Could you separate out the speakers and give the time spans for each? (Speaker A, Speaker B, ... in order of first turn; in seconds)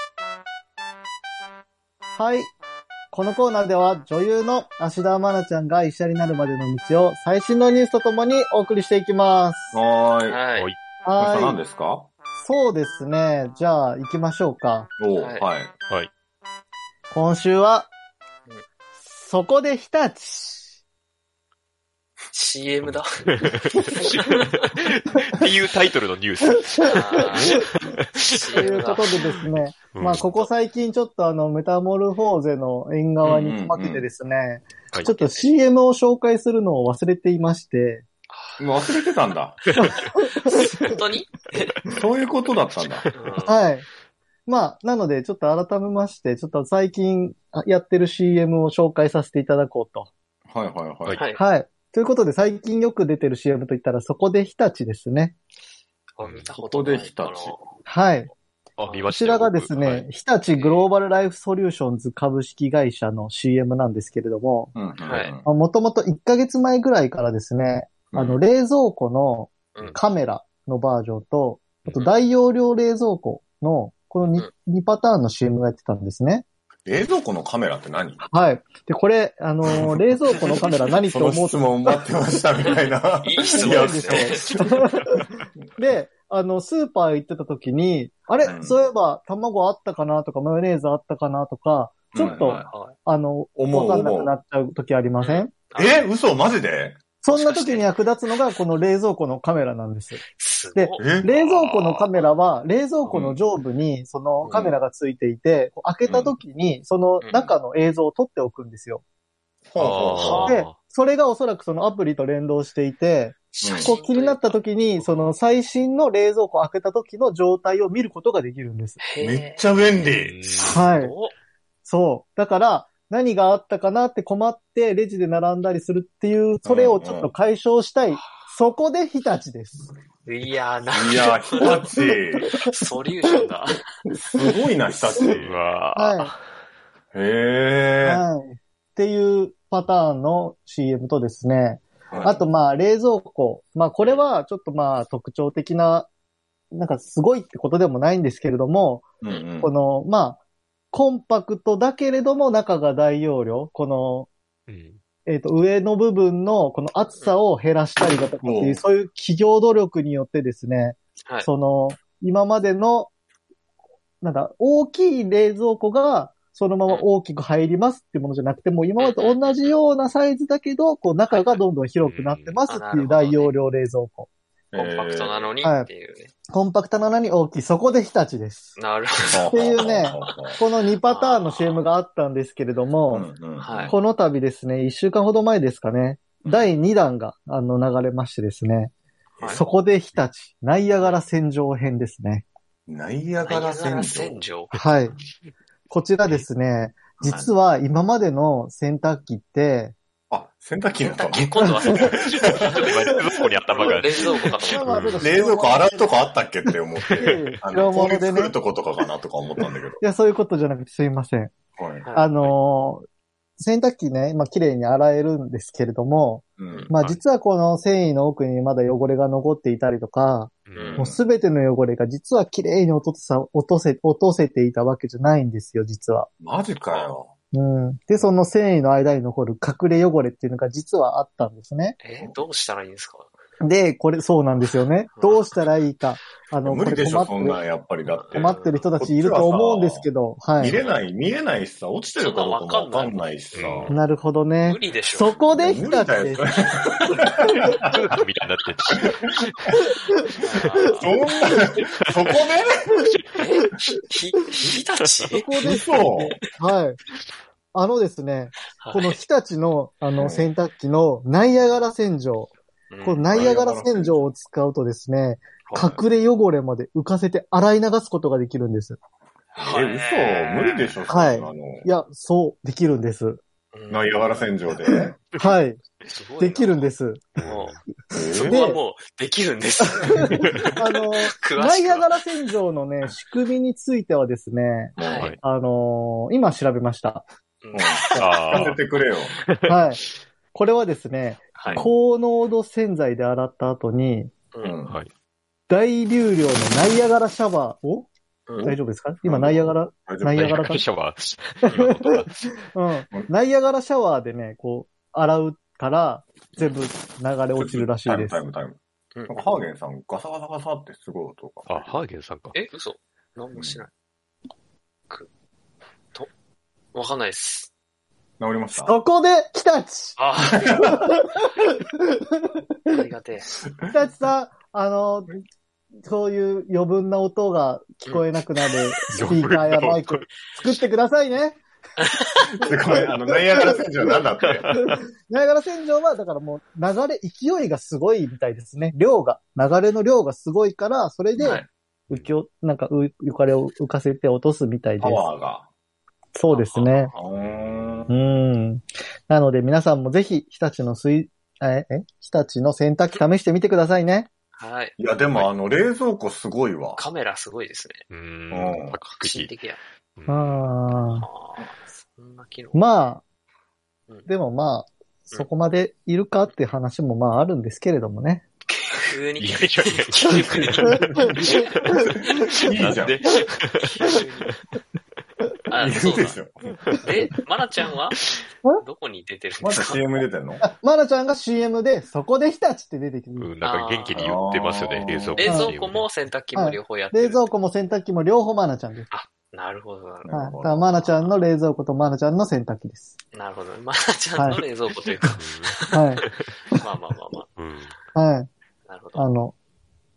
Speaker A: 2.2-2.5, 3.1-9.8, 11.1-11.6, 12.4-14.9, 17.1-17.9, 19.1-20.6, 28.6-38.0, 39.8-40.6, 43.5-43.9, 44.5-50.1, 51.4-55.4, 57.9-58.3, 59.1-64.7, 65.4-76.5, 78.3-82.0, 83.5-95.5, 97.2-100.2, 100.8-109.0, 110.5-119.0, 120.7-121.1, 121.9-129.9, 135.9-136.3, 138.0-146.1, 146.7-149.1, 149.6-150.4, 150.9-154.3, 155.3-163.1, 164.2-174.3, 175.6-175.9, 176.5-178.8, 179.5-183.3, 183.9-188.9, 189.6-192.5, 194.7-195.2, 195.9-199.9, 204.7-206.1, 206.7-208.6, 210.0-211.5, 212.2-213.0, 213.6-226.3, 227.5-232.0, 233.6-237.6, 238.3-240.8, 243.9-246.5, 255.3-257.0, 257.7-262.5, 263.0-269.0, 271.1-273.4, 275.3-275.8, 276.4-277.4, 278.4-278.8, 280.0-287.2, 289.7-290.0, 290.5-294.3, 295.7-298.1, 298.6-300.9, 301.8-302.1, 302.7-308.4, 318.9-320.2, 320.8-322.9, 323.9-325.3, 326.0-331.6, 334.8-345.2, 346.4-347.1, 348.1-354.3, 360.3-361.3, 362.7-363.2, 364.3-368.4, 380.6-383.5, 385.4-385.7, 386.6-389.1, 390.3-393.1, 394.4-394.6, 395.9-396.2, 398.1-398.5, 399.1-399.6
Speaker B: 9.7-10.4, 11.2-12.1, 15.0-15.7, 33.3-34.1, 38.6-39.6, 42.0-43.1, 50.5-51.2, 56.6-57.5, 64.7-65.5, 68.1-68.4, 76.9-78.2, 79.7-85.3, 88.4-88.8, 92.1-92.7, 93.6-94.4, 95.8-97.0, 101.0-101.3, 103.1-103.4, 106.1-106.3, 109.7-110.5, 113.6-113.9, 119.2-120.7, 126.7-127.3, 130.9-132.5, 134.2-135.6, 137.1-138.2, 142.1-142.4, 149.2-149.7, 158.4-158.8, 174.7-175.5, 179.3-180.6, 183.1-183.9, 186.4-186.7, 189.4-189.7, 192.9-194.4, 200.3-203.9, 205.2-210.0, 211.8-212.1, 216.6-216.9, 220.8-221.2, 226.4-227.3, 236.7-240.1, 240.6-243.9, 245.6-248.0, 250.9-252.9, 255.6-256.4, 260.2-260.5, 263.3-264.3, 265.7-266.0, 269.6-271.9, 273.9-275.2, 278.1-278.6, 285.0-285.3, 287.7-289.4, 294.6-295.0, 299.2-300.6, 307.6-308.8, 309.3-311.9, 318.4-318.9, 320.5-321.1, 332.6-334.7, 345.0-345.7, 347.1-348.1, 355.0-357.0, 358.5-359.0, 371.1-371.5, 372.6-373.2, 375.8-376.7, 379.6-380.6, 384.1-385.5, 390.2-390.9
Speaker C: 10.3-10.7, 15.2-15.5, 22.3-24.8, 26.8-27.6, 28.3-29.1, 35.0-35.5, 38.3-38.7, 40.4-41.8, 43.1-43.6, 56.2-57.8, 60.5-60.9, 65.1-65.3, 83.2-84.9, 92.2-93.0, 95.2-96.1, 97.3-97.9, 100.4-102.0, 104.4-104.8, 107.2-107.5, 110.2-110.6, 113.5-115.3, 119.0-119.7, 120.6-121.3, 130.3-131.8, 132.6-133.8, 169.0-169.8, 171.3-171.6, 172.7-173.5, 174.7-176.3, 178.8-180.4, 181.0-181.8, 183.6-184.0, 193.4-194.8, 201.0-203.2, 203.7-205.3, 232.0-233.3, 235.2-235.4, 238.2-238.8, 240.7-241.0, 242.2-244.0, 244.6-245.4, 250.4-251.1, 253.4-255.6, 258.8-259.2, 262.9-263.5, 269.6-271.0, 273.7-274.5, 276.1-276.9, 277.5-277.8, 278.3-282.2, 285.0-285.3, 287.6-288.8, 291.6-291.8, 298.5-298.8, 301.7-302.0, 309.1-309.4, 312.5-313.9, 316.9-317.7, 320.2-320.8, 322.9-323.6, 332.0-332.5, 341.4-341.6, 346.5-347.2, 354.6-355.5, 357.0-358.0, 359.1-359.8, 361.2-363.1, 368.7-371.7, 373.8-374.5, 375.7-376.4, 377.0-378.2, 378.8-380.1, 383.6-384.3, 385.4-387.5, 389.1-391.4, 393.3-396.0, 396.7-397.5, 398.9-399.3
Speaker D: 22.8-28.6, 29.9-30.3, 56.2-56.5, 58.8-60.1, 101.6-101.9, 109.8-110.8, 120.1-120.8, 135.2-136.4, 154.7-155.0, 172.0-172.6, 202.8-205.3, 207.1-207.6, 216.9-217.2, 220.7-221.1, 243.5-243.9, 247.7-249.6, 250.6-251.1, 277.4-277.8, 288.2-288.8, 289.4-290.0, 300.4-302.7, 311.7-312.6, 329.1-330.3, 334.4-334.9, 347.4-347.7, 358.1-359.5, 360.2-360.8, 369.4-374.6, 378.2-378.4, 383.4-386.1, 395.3-396.5, 397.6-397.9